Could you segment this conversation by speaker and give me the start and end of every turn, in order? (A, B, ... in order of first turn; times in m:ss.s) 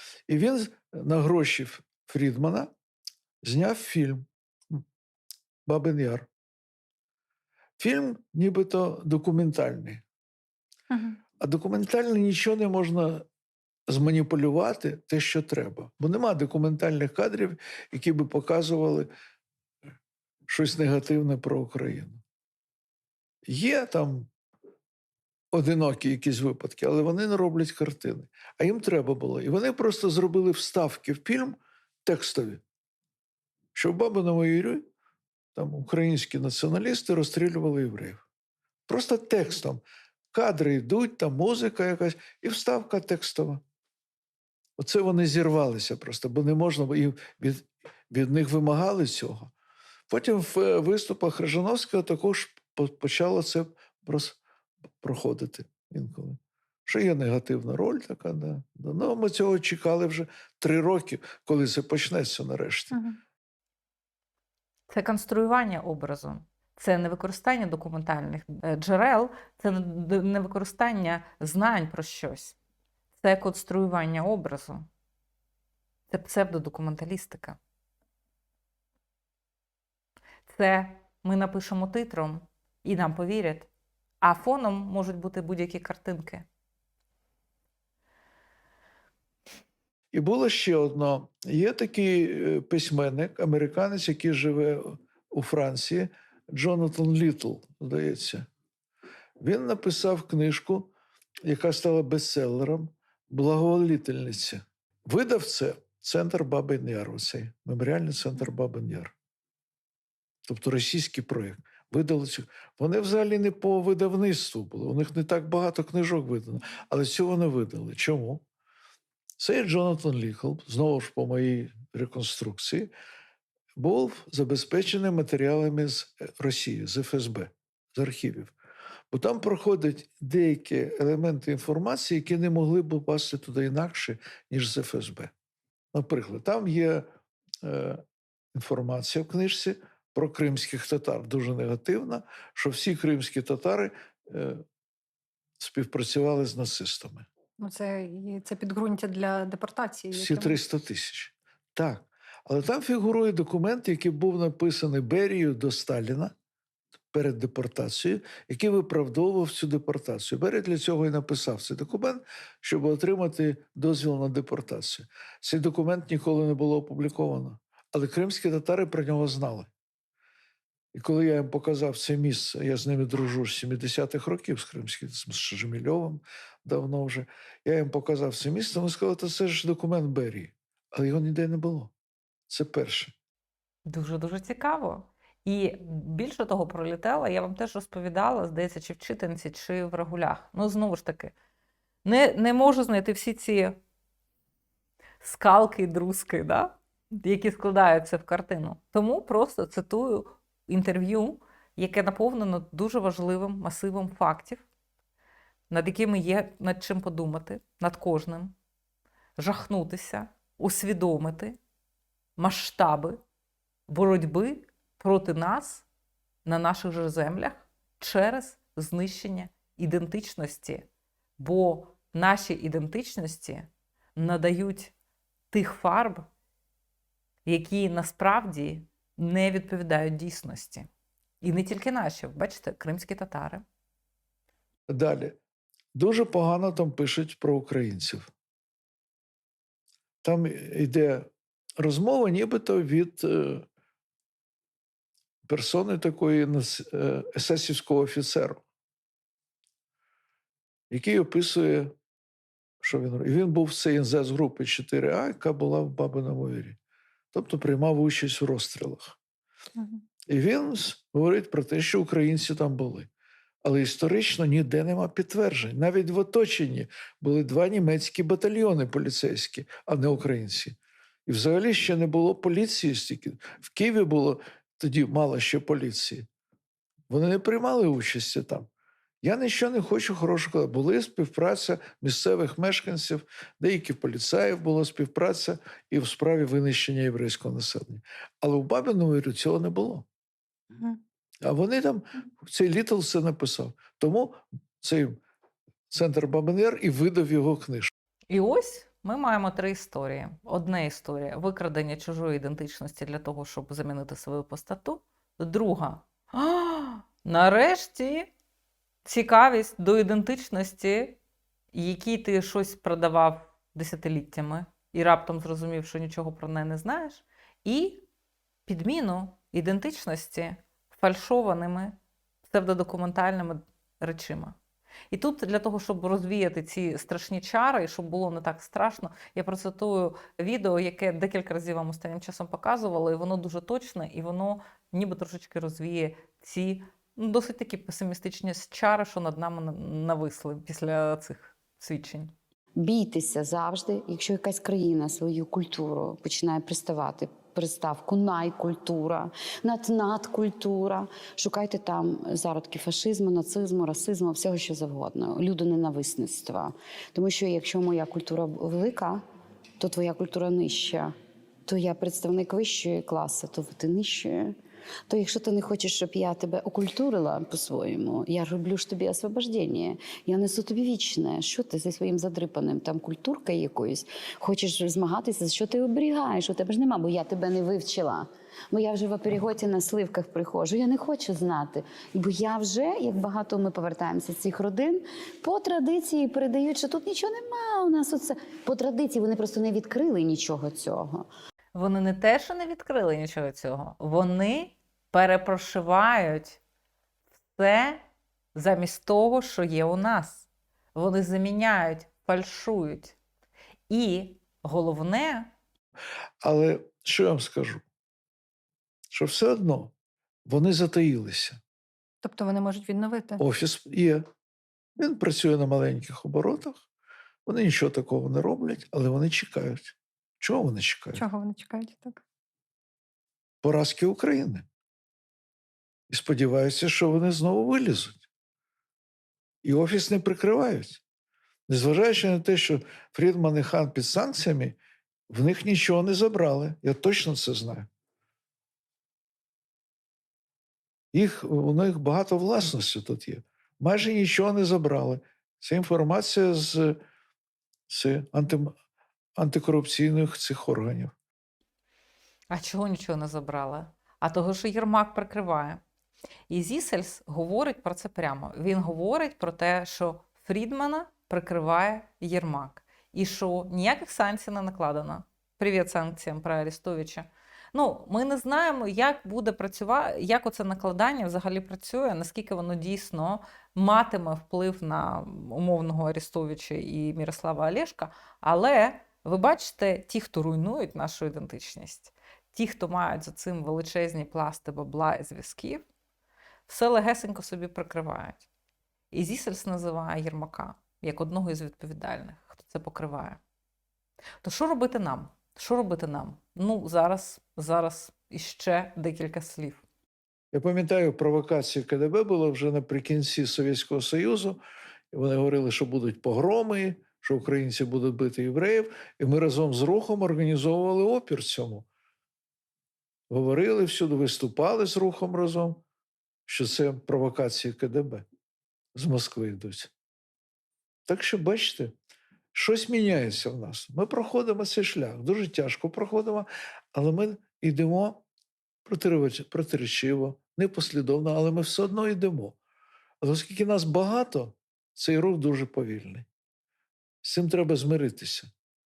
0:00.3-0:02.7 A
0:03.4-0:04.8 A
0:05.7-0:06.3 A
0:07.8-0:10.0 A
0:10.9-0:11.2 B
0:11.4-0:13.3 A
0:13.9-0:19.1 A
0:20.5-0:22.2 A
0:23.4-0:24.3 A
0:25.5-0:32.6 A
0:33.8-0:34.9 A
0:35.6-0:38.2 A
0:38.9-0:39.8 A
0:40.3-0:43.6 A
0:44.8-0:49.5 A
0:50.1-0:54.4 A
0:55.0-1:03.0 A
1:02.9-1:03.2 B
1:04.9-1:12.6 C
1:13.2-1:14.9 C
1:16.1-1:17.6 C
1:20.5-1:23.7 C
1:24.2-1:26.5 C
1:30.1-1:38.5 A
1:39.4-1:40.9 A
1:41.4-1:49.1 A
1:50.5-1:58.4 A
1:59.4-2:02.9 A
2:03.8-2:08.5 A
2:09.1-2:15.3 A
2:15.9-2:17.1 A
2:17.6-2:18.0 A
2:18.5-2:24.6 A
2:25.6-2:27.3 A
2:27.6-2:30.6 B
2:30.1-2:36.3 A
2:37.1-2:49.7 A
2:50.9-3:01.9 A
3:02.5-3:03.1 A
3:03.9-3:11.3 C
3:12.0-3:13.8 C
3:15.2-3:24.6 C
3:25.7-3:28.6 C
3:29.4-3:31.6 C
3:32.4-3:33.2 C
3:33.9-3:35.8 C
3:36.4-3:40.9 C
3:41.4-3:44.9 C
3:45.5-3:46.3 C
3:47.5-3:50.9 C
3:51.4-3:53.6 C
3:54.9-3:55.4 A
3:56.0-3:58.3 A
4:00.2-4:01.3 A
4:01.8-4:03.7 A
4:05.4-4:08.6 A
4:10.9-4:11.9 A
4:12.8-4:16.8 A
4:17.3-4:19.2 A
4:19.8-4:20.0 B
4:20.3-4:23.1 A
4:23.6-4:36.3 A
4:37.1-4:38.7 A
4:39.2-4:50.0 A
4:50.7-4:51.0 B
4:51.4-4:55.2 A
4:55.9-4:57.9 A
4:58.3-5:08.3 C
5:09.0-5:11.2 C
5:11.7-5:18.0 C
5:18.7-5:22.0 C
5:22.5-5:24.6 C
5:25.1-5:42.3 C
5:42.8-5:59.2 D
5:59.8-6:01.1 D
6:01.7-6:04.6 D
6:05.1-6:31.3 D
6:31.8-6:36.6 C
6:37.6-6:38.0 C
6:38.6-6:43.2 C
6:43.9-6:45.5 C
6:46.4-6:47.8 A
6:49.1-6:49.9 A
6:50.5-6:51.6 A
6:52.2-6:53.4 B
6:53.4-6:54.3 A
6:55.0-6:56.8 A
6:57.5-7:01.2 A
7:01.1-7:02.2 B
7:03.6-7:04.7 A
7:06.1-7:08.2 A
7:09.6-7:11.0 A
7:11.7-7:14.8 A
7:15.3-7:17.9 A
7:21.1-7:27.0 A
7:27.9-7:28.7 A
7:29.4-7:31.1 A
7:32.5-7:35.8 C
7:36.5-8:05.8 C
8:06.7-8:08.5 C
8:09.1-8:13.4 C
8:14.4-8:19.8 C
8:20.5-8:24.6 A
8:25.1-8:31.9 A
8:33.3-8:35.8 A
8:36.5-8:38.2 A
8:39.0-8:39.9 A
8:41.1-8:41.9 A
8:42.5-8:48.2 A
8:48.8-8:52.6 A
8:53.2-8:56.3 A
8:57.2-8:58.5 A